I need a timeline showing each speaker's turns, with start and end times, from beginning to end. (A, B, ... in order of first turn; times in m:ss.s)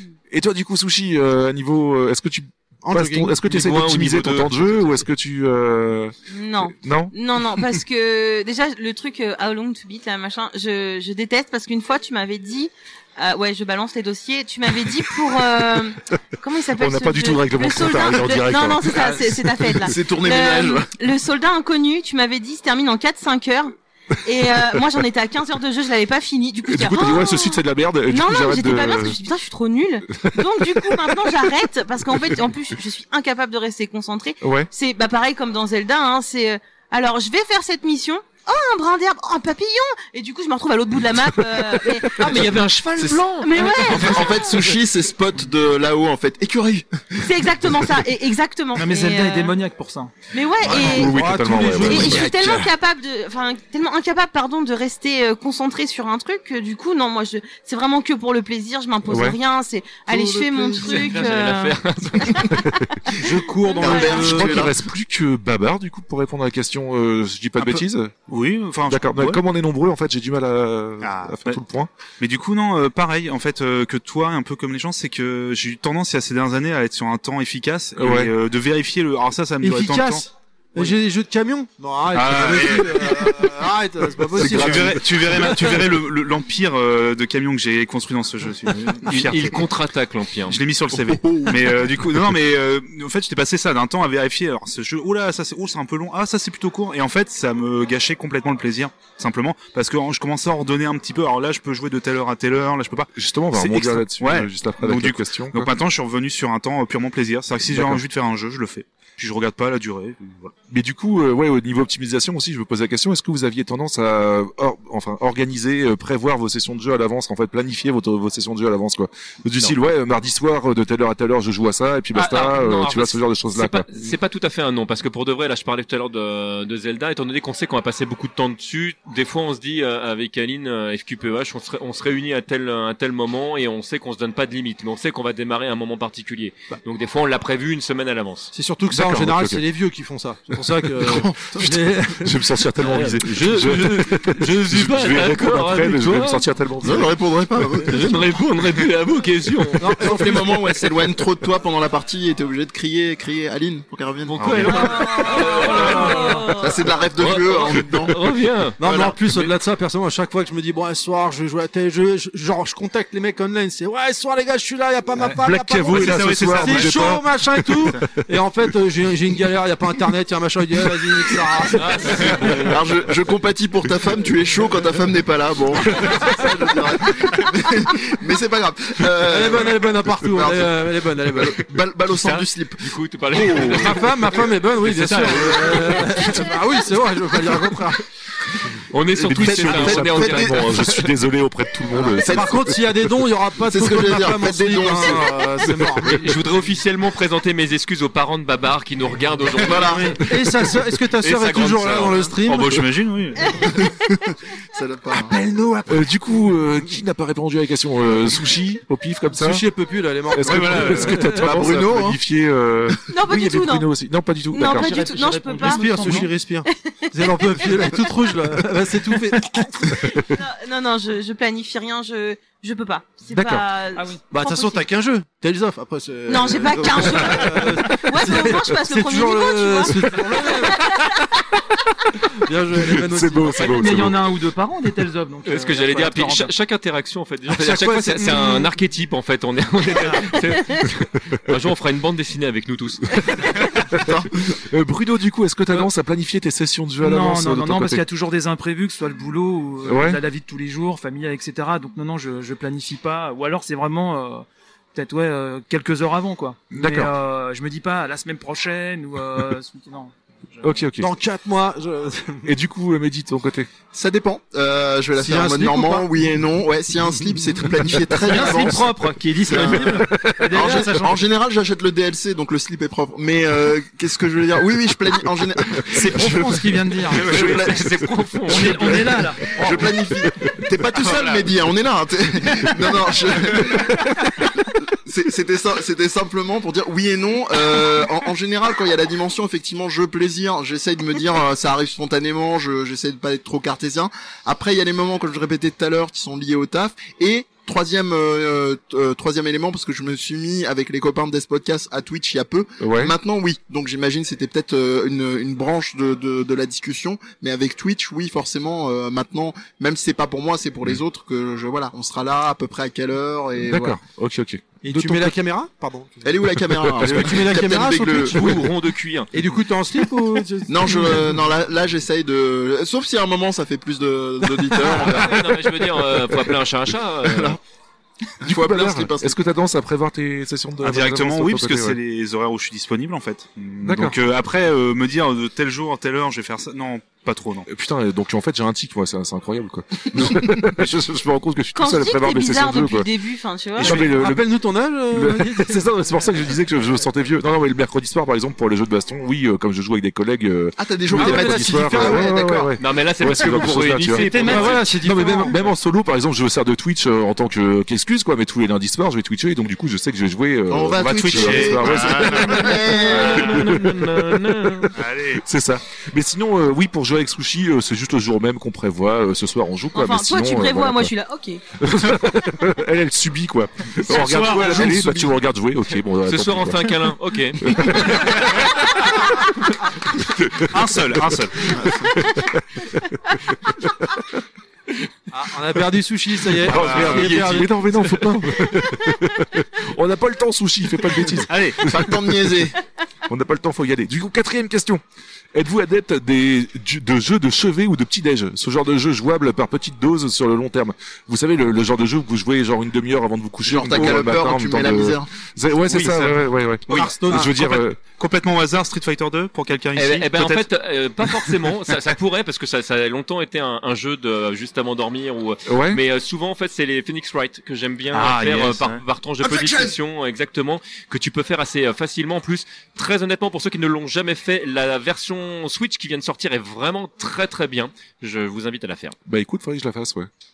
0:00.3-0:06.1 A
0:02.8-0:03.4 B
0:03.4-0:04.9 C
0:06.3-0:42.6 D
0:06.8-0:07.1 A
0:16.8-0:19.7 A
0:19.8-0:21.0 E
0:26.7-0:29.2 A
0:30.2-0:31.2 A
0:34.4-0:34.7 A
0:42.2-0:44.7 C
0:42.4-0:43.2 E
0:43.4-0:44.5 D
0:43.8-0:47.3 E
0:47.2-0:49.5 D
0:48.8-0:50.1 F
0:50.3-0:51.3 D
0:50.6-0:52.7 A
0:50.7-0:52.3 B
0:51.8-1:02.9 D
0:59.1-0:59.4 A
1:00.1-1:00.9 B
1:00.8-1:02.6 C
1:03.2-1:04.7 B
1:03.6-1:04.3 D
1:03.7-1:04.8 E
1:03.9-1:08.2 A
1:07.6-1:09.4 G
1:08.9-1:11.9 A
1:11.0-1:11.6 G
1:12.2-1:21.0 G
1:18.0-1:18.3 A
1:19.6-1:25.6 B
1:22.1-1:23.5 G
1:24.4-1:29.6 G
1:29.1-1:30.6 C
1:30.5-1:50.5 G
1:31.1-1:31.6 E
1:43.2-1:45.7 A
1:47.6-1:48.0 A
1:50.7-2:03.9 A
2:02.1-2:18.5 C
2:18.5-2:22.4 B
2:18.9-2:19.6 A
2:21.0-2:27.1 A
2:21.0-2:21.8 E
2:22.8-2:26.5 C
2:26.8-2:28.3 E
2:27.8-2:30.0 C
2:29.8-2:30.8 B
2:29.9-2:34.9 E
2:34.3-2:36.6 C
2:34.4-2:34.8 A
2:34.7-2:36.9 D
2:35.7-2:38.2 E
2:37.2-2:39.5 C
2:38.8-2:52.6 B
2:38.8-2:39.2 E
2:45.2-2:48.1 A
2:45.8-2:47.2 G
2:51.8-2:52.8 C
2:52.3-3:04.0 E
2:59.2-3:01.6 B
3:02.2-3:06.5 C
3:03.6-3:08.0 B
3:08.9-3:11.1 C
3:09.2-3:12.8 A
3:09.3-3:11.0 E
3:11.9-3:12.6 E
3:12.2-3:16.4 B
3:13.6-3:15.7 E
3:16.0-3:20.3 C
3:19.6-3:20.3 E
3:20.0-3:22.8 B
3:21.2-3:22.4 C
3:22.4-3:23.6 G
3:23.4-3:23.9 D
3:24.7-3:25.4 E
3:25.3-3:29.7 A
3:25.4-3:26.1 B
3:29.3-3:31.5 B
3:30.3-3:35.1 A
3:30.4-3:31.4 G
3:31.4-3:32.2 E
3:33.1-3:33.9 D
3:34.5-3:38.1 D
3:34.6-3:36.4 F
3:35.6-3:40.0 B
3:39.8-3:44.8 D
3:43.3-3:43.7 A
3:44.0-3:44.2 F
3:44.3-3:51.1 B
3:46.3-3:51.2 D
3:52.3-3:54.0 B
3:52.8-3:54.2 A
3:53.5-3:56.5 F
3:55.4-4:03.5 C
3:57.5-3:58.7 B
4:00.0-4:00.3 F
4:03.9-4:04.6 E
4:04.5-4:08.0 A
4:07.0-4:20.9 F
4:09.8-4:10.2 A
4:16.7-4:17.1 A
4:20.6-4:21.1 A
4:21.0-4:22.5 B
4:22.4-4:23.7 A
4:23.9-4:44.2 E
4:25.2-4:26.1 B
4:28.2-4:31.3 F
4:30.0-4:30.4 A
4:35.9-4:37.4 F
4:37.2-4:39.2 C
4:38.5-4:39.9 F
4:39.2-4:39.7 A
4:41.0-4:41.5 G
4:44.9-5:14.0 E
5:02.8-5:03.1 A
5:13.6-5:15.4 A
5:14.8-5:16.4 B
5:16.2-5:18.6 E
5:16.6-5:17.5 A
5:16.9-5:18.7 B
5:18.0-5:19.3 C
5:19.3-5:21.4 B
5:20.7-5:25.6 E
5:24.8-5:27.6 C
5:27.2-5:27.6 E
5:28.4-5:29.4 E
5:28.4-5:32.0 A
5:30.8-5:37.7 G
5:33.8-5:34.2 A
5:37.7-5:43.1 A
5:41.8-5:44.0 D
5:43.8-5:44.5 A
5:43.8-5:45.8 B
5:45.1-6:11.1 A
5:50.8-5:52.7 E
5:51.1-5:52.4 B
5:52.8-5:54.9 C
5:54.2-5:55.0 F
5:54.2-5:55.6 B
6:00.7-6:03.6 E
6:01.1-6:02.8 G
6:02.6-6:04.9 C
6:04.9-6:05.4 G
6:09.9-6:11.6 D
6:11.8-6:18.6 A
6:14.1-6:15.1 F
6:14.1-6:14.5 G
6:16.2-6:18.4 C
6:18.4-6:19.1 G
6:20.2-6:24.3 A
6:20.6-6:21.8 G
6:21.7-6:22.2 E
6:25.3-6:28.0 B
6:26.6-6:32.1 A
6:26.7-6:27.4 G
6:26.9-6:27.7 C
6:31.5-6:32.0 G
6:31.8-6:32.8 E
6:33.3-6:35.0 A
6:35.5-6:48.0 A
6:43.6-6:45.3 E
6:45.8-6:52.0 G
6:46.9-6:47.6 B
6:50.0-7:09.2 C
6:55.7-6:56.0 A
6:58.1-6:59.0 G
6:59.4-7:00.0 E
7:09.3-7:10.3 A